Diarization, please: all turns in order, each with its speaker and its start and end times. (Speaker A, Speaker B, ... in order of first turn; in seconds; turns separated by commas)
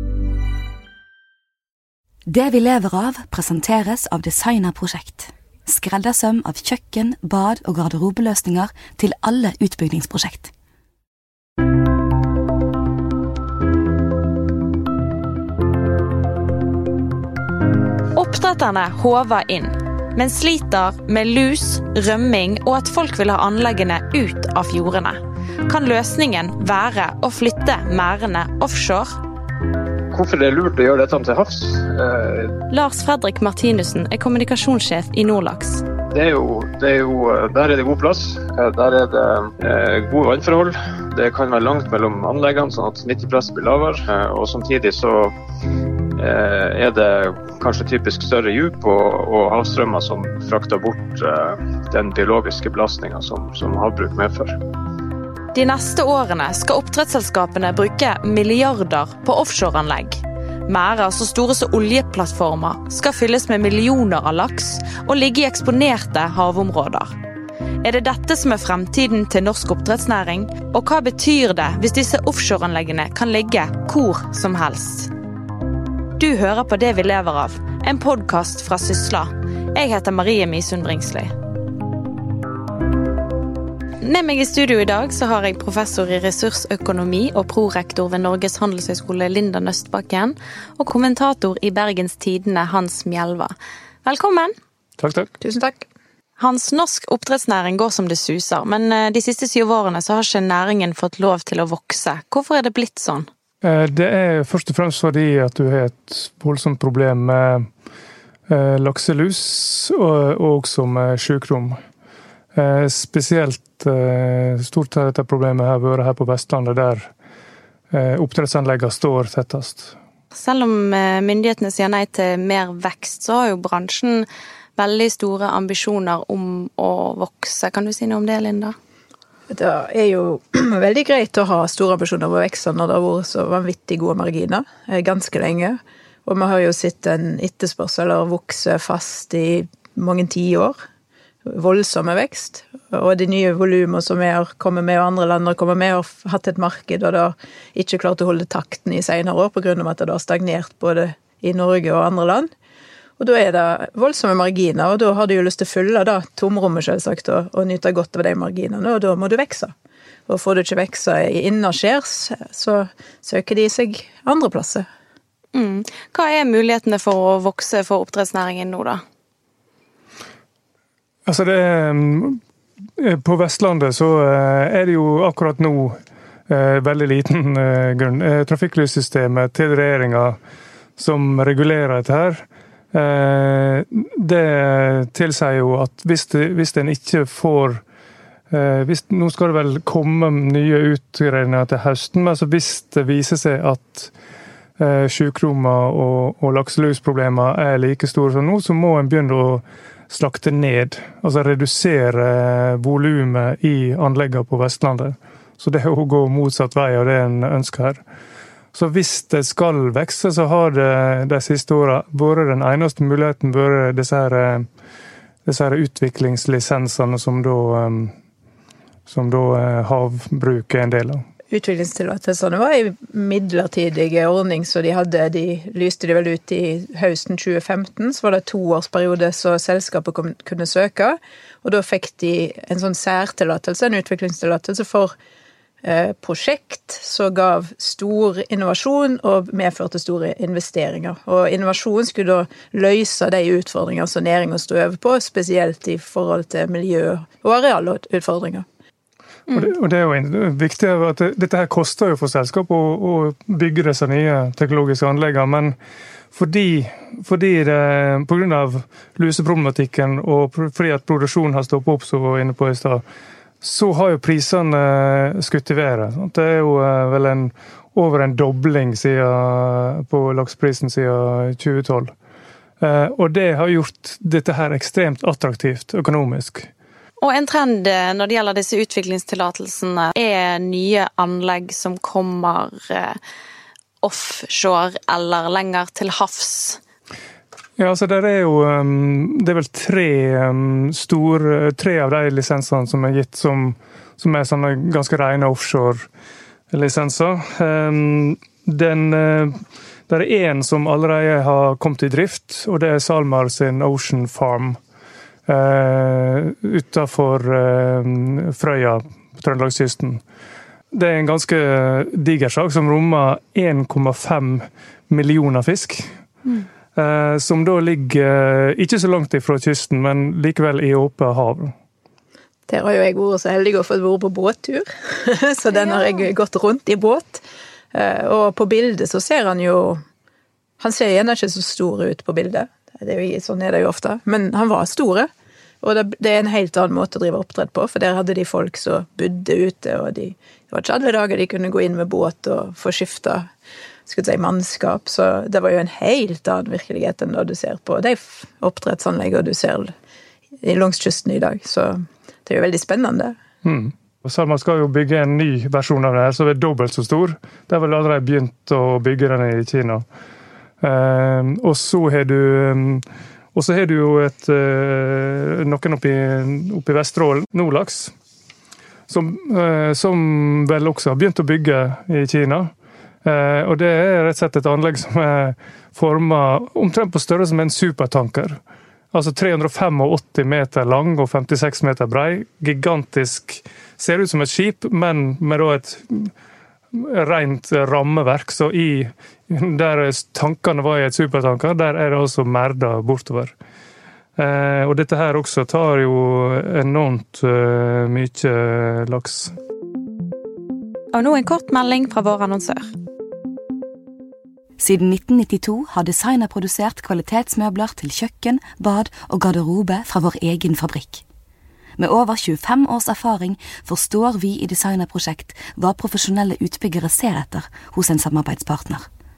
Speaker A: 2.3-10.5, Speaker B: 18.1-29.2, Speaker C: 30.1-32.6, Speaker B: 32.7-35.8, Speaker C: 36.1-45.3, Speaker C: 46.2-54.6, Speaker B: 55.5-67.2, Speaker B: 67.8-75.1, Speaker B: 76.2-81.3, Speaker B: 84.0-93.5, Speaker B: 94.0-94.5, Speaker D: 95.0-95.3, Speaker E: 95.4-95.9, Speaker B: 96.4-103.3, Speaker D: 103.6-107.7, Speaker D: 108.5-111.8, Speaker D: 112.5-117.1, Speaker D: 117.9-119.9, Speaker B: 120.3-128.8, Speaker E: 129.5-140.8, Speaker E: 141.4-152.5, Speaker E: 153.2-159.7, Speaker E: 160.3-164.9, Speaker B: 165.5-169.0, Speaker D: 171.3-172.4, Speaker D: 173.0-176.0, Speaker D: 176.5-180.4, Speaker D: 181.0-187.8, Speaker D: 188.5-194.1, Speaker D: 194.8-208.0, Speaker D: 208.7-214.7, Speaker D: 215.5-218.1, Speaker D: 219.1-221.2, Speaker E: 221.5-235.1, Speaker E: 235.8-248.7, Speaker B: 249.5-249.7, Speaker D: 249.5-255.8, Speaker D: 256.3-263.0, Speaker D: 263.6-272.1, Speaker D: 272.8-276.7, Speaker B: 277.2-283.2, Speaker B: 284.0-286.8, Speaker D: 287.8-296.1, Speaker D: 296.7-299.6, Speaker D: 300.1-304.8, Speaker D: 305.5-310.2, Speaker D: 310.9-316.1, Speaker D: 316.9-321.7, Speaker E: 322.7-330.0, Speaker B: 325.7-326.2, Speaker E: 330.8-335.3, Speaker E: 335.8-343.5, Speaker E: 344.1-349.9, Speaker E: 350.6-353.4, Speaker D: 353.6-360.1, Speaker D: 360.8-368.1, Speaker D: 369.1-372.7, Speaker D: 373.2-378.6, Speaker D: 379.1-386.3, Speaker D: 386.9-393.5, Speaker D: 394.4-399.5, Speaker B: 401.1-402.9, Speaker A: 404.8-411.2, Speaker A: 412.0-419.1